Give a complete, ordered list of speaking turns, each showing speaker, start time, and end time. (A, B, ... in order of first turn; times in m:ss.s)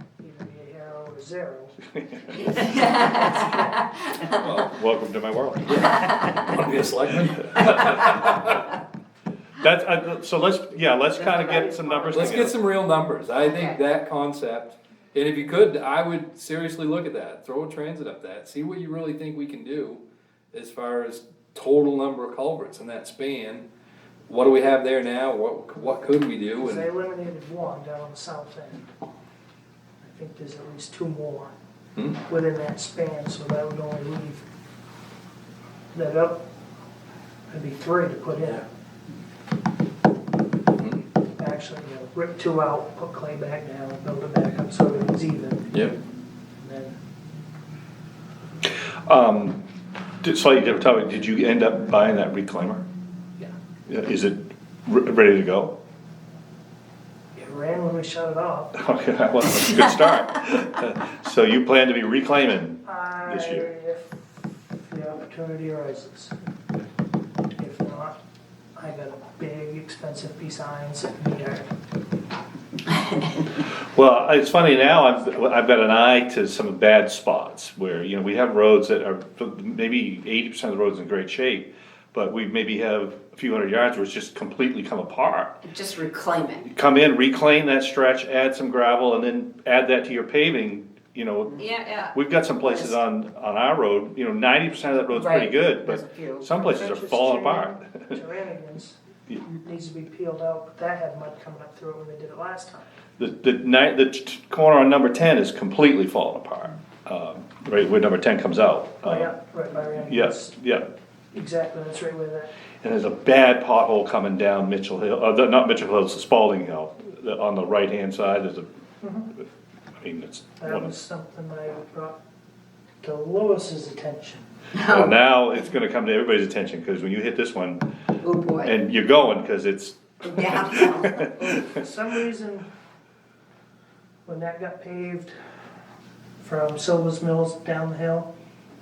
0:00.2-0:01.8 A
0:02.0-0:02.4 B
0:02.3-0:03.9 A
0:02.4-0:04.6 C
0:04.3-0:05.9 B
0:05.6-0:08.7 D
0:05.9-0:06.4 C
0:09.6-0:12.6 B
0:11.2-0:11.8 C
0:11.4-0:12.6 A
0:12.1-0:20.0 D
0:13.4-0:13.8 C
0:20.5-0:23.7 D
0:24.3-0:26.9 D
0:26.5-0:28.9 A
0:30.0-0:31.5 A
0:32.2-0:34.4 A
0:35.9-0:36.4 A
0:37.5-0:38.6 A
0:41.4-0:45.9 A
0:46.6-0:47.0 A
0:49.1-0:49.6 B
0:50.2-0:52.8 B
0:53.9-0:55.8 B
0:57.4-0:58.9 A
0:58.8-1:03.7 B
1:02.8-1:06.3 A
1:07.6-1:08.2 A
1:08.8-1:11.7 A
1:13.7-1:25.6 B
1:25.6-1:26.7 C
1:26.7-1:38.2 B
1:31.6-1:33.0 C
1:35.1-1:36.5 C
1:36.5-1:42.8 A
1:43.2-1:49.3 B
1:49.0-1:50.5 A
1:50.0-1:50.9 B
1:51.3-1:52.5 A
1:52.8-1:58.7 B
1:59.0-1:59.3 A
2:00.0-2:00.9 B
2:00.6-2:02.2 A
2:03.0-2:04.5 A
2:04.7-2:05.2 C
2:04.9-2:07.8 B
2:08.2-2:08.8 C
2:08.6-2:11.5 B
2:10.2-2:11.3 C
2:11.4-2:12.7 A
2:14.3-2:15.3 A
2:16.4-2:18.3 A